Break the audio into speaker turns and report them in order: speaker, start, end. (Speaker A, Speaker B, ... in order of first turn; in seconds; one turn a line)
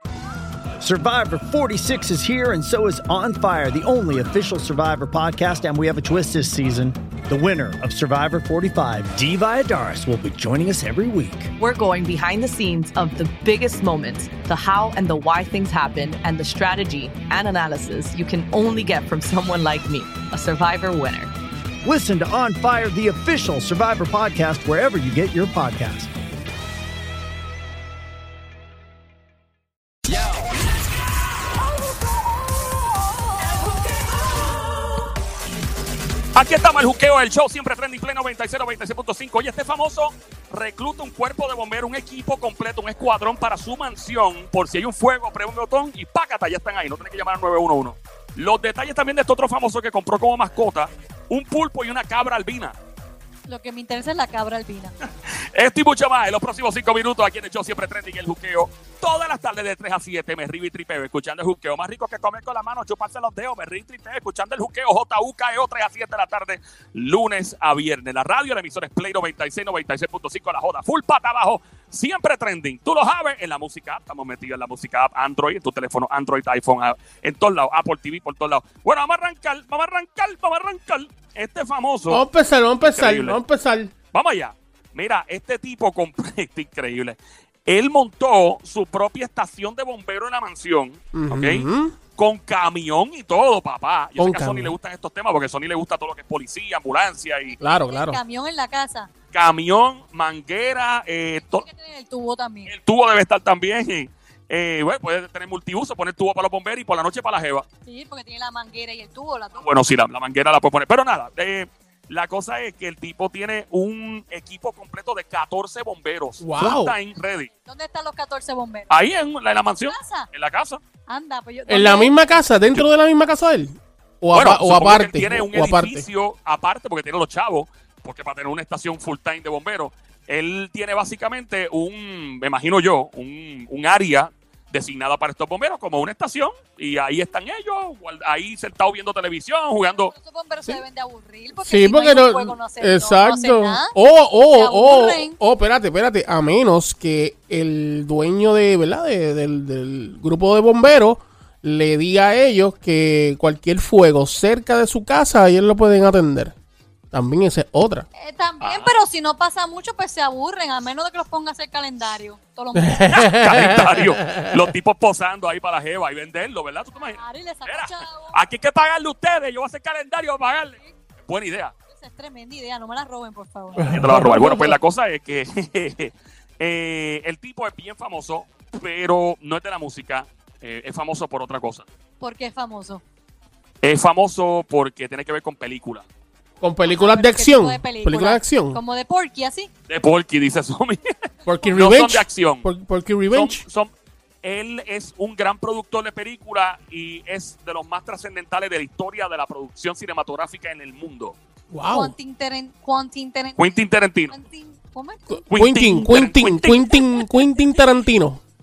Speaker A: 0.8-11.5
Speaker B: 11.6-21.3
Speaker A: 21.8-26.1
Speaker C: 36.3-52.8
Speaker D: 53.5-54.9
Speaker C: 55.3-82.2
Speaker E: 82.1-83.9
Speaker C: 82.8-83.4
Speaker C: 84.1-97.6
Speaker E: 91.1-92.0
Speaker E: 94.2-94.7
Speaker E: 97.6-98.2
Speaker D: 97.6-99.1
Speaker C: 99.3-101.6
Speaker D: 101.4-102.7
Speaker C: 102.7-107.7
Speaker D: 107.8-109.6
Speaker C: 109.6-117.5
Speaker E: 116.4-116.9
Speaker D: 117.6-118.9
Speaker C: 118.9-120.8
Speaker D: 119.8-120.3
Speaker D: 121.0-122.3
Speaker E: 121.7-126.0
Speaker C: 124.3-140.1
Speaker D: 139.9-145.4
Speaker E: 141.6-156.5
Speaker E: 157.1-158.1
Speaker D: 158.1-163.1
Speaker C: 158.6-158.9
Speaker E: 162.7-164.6
Speaker C: 163.1-171.7
Speaker D: 167.0-168.3
Speaker D: 171.9-173.9
Speaker E: 173.8-174.7
Speaker C: 173.8-181.9
Speaker D: 182.2-183.0
Speaker C: 183.8-186.1
Speaker E: 186.6-188.8
Speaker D: 186.8-189.7
Speaker C: 189.9-191.0
Speaker E: 191.4-193.6
Speaker C: 191.7-192.7
Speaker C: 193.3-193.9
Speaker C: 194.4-201.4
Speaker E: 201.7-202.1
Speaker D: 201.9-203.6
Speaker C: 203.6-204.3
Speaker D: 204.3-205.3
Speaker E: 205.3-208.4
Speaker C: 205.5-207.2